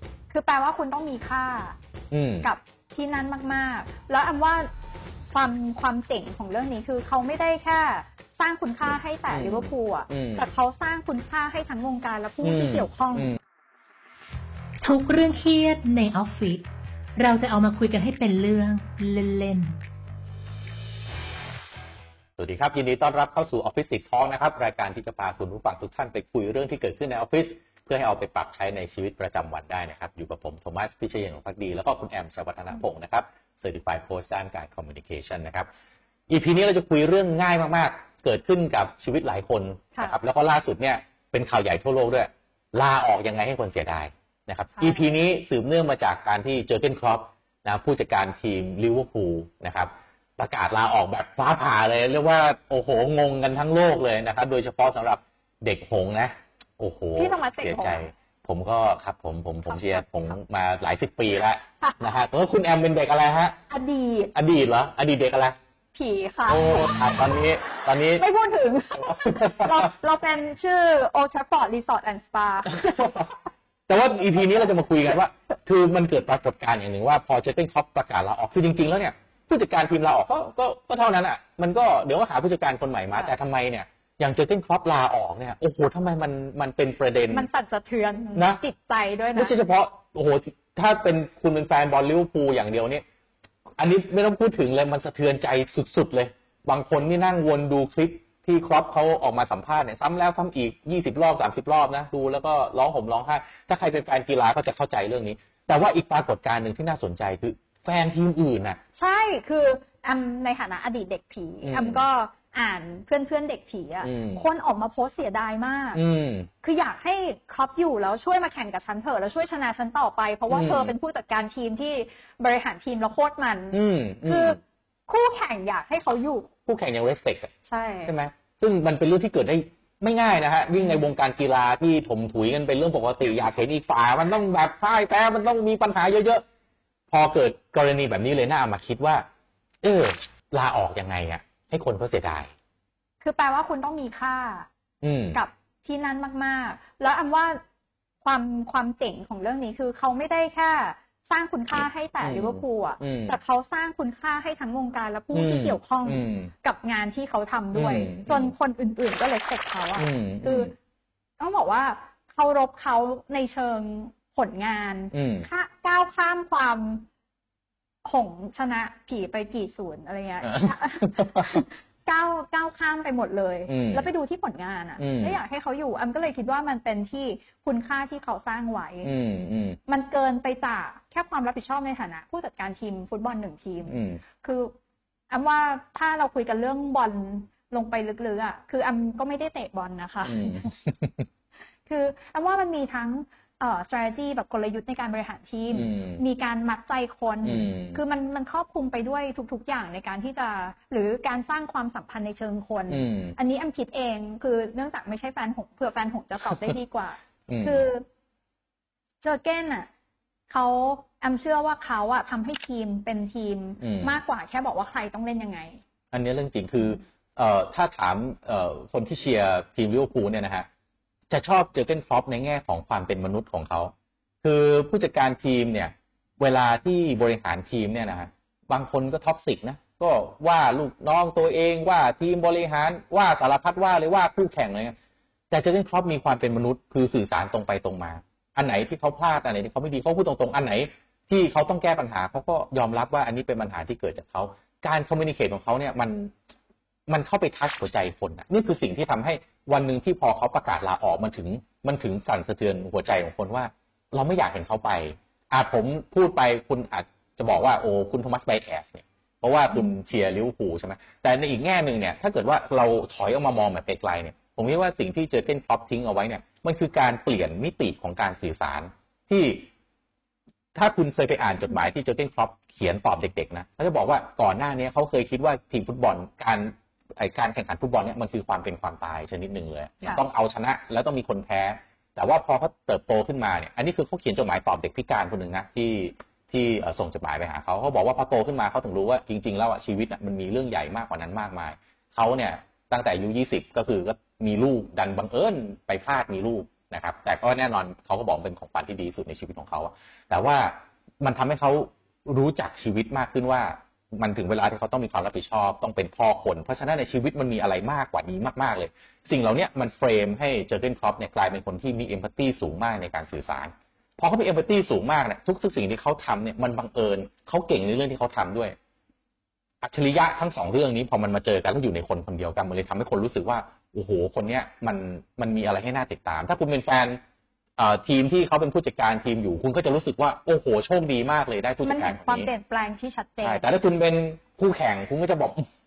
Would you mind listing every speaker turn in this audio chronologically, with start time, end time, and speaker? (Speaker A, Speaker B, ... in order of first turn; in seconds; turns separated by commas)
Speaker A: 0.3-1.8, Speaker B: 2.1-2.5, Speaker A: 2.4-4.7, Speaker A: 5.3-13.3, Speaker B: 9.3-10.4, Speaker B: 12.4-13.4, Speaker C: 14.8-19.8, Speaker B: 22.4-35.7, Speaker B: 36.3-63.6, Speaker A: 44.8-45.1, Speaker A: 57.1-58.1, Speaker A: 59.7-60.0, Speaker A: 61.8-62.1, Speaker A: 63.7-64.3, Speaker B: 64.3-65.5, Speaker A: 65.9-67.1, Speaker B: 66.5-68.2, Speaker A: 68.1-73.3, Speaker B: 69.0-69.8, Speaker B: 72.8-73.3, Speaker B: 73.9-87.5, Speaker A: 87.3-89.5, Speaker B: 88.3-88.6, Speaker B: 89.3-93.0, Speaker B: 93.8-108.8, Speaker A: 109.0-116.0, Speaker B: 111.6-112.0, Speaker B: 114.0-114.4, Speaker B: 115.9-116.5, Speaker A: 116.6-126.5, Speaker B: 120.5-120.9, Speaker B: 123.7-124.6, Speaker B: 126.7-127.5, Speaker A: 127.7-128.1, Speaker B: 128.0-136.4, Speaker A: 130.8-131.0, Speaker B: 137.1-139.2, Speaker B: 139.8-142.5, Speaker A: 143.2-144.7, Speaker B: 145.0-145.4, Speaker A: 145.3-147.6, Speaker A: 148.2-160.7, Speaker B: 151.7-153.4, Speaker B: 155.3-156.5, Speaker B: 157.7-158.5, Speaker B: 160.0-160.7, Speaker A: 161.4-167.1, Speaker B: 165.1-165.5, Speaker A: 168.0-179.1, Speaker B: 170.4-171.6, Speaker B: 173.7-174.1, Speaker B: 175.0-175.4, Speaker B: 179.0-179.8, Speaker A: 179.9-184.7, Speaker B: 183.8-184.2, Speaker A: 185.3-190.7, Speaker B: 190.2-191.3, Speaker A: 191.9-208.0, Speaker B: 195.7-196.2, Speaker B: 197.4-198.0, Speaker B: 202.9-203.3, Speaker B: 207.5-207.8, Speaker A: 209.2-209.9, Speaker A: 210.5-215.8, Speaker B: 213.8-214.2, Speaker B: 216.1-220.7, Speaker B: 221.3-234.9, Speaker B: 235.5-246.3, Speaker B: 247.1-269.7, Speaker B: 270.7-318.8, Speaker B: 319.8-327.2, Speaker B: 327.8-332.5, Speaker A: 331.8-333.6, Speaker B: 333.4-335.6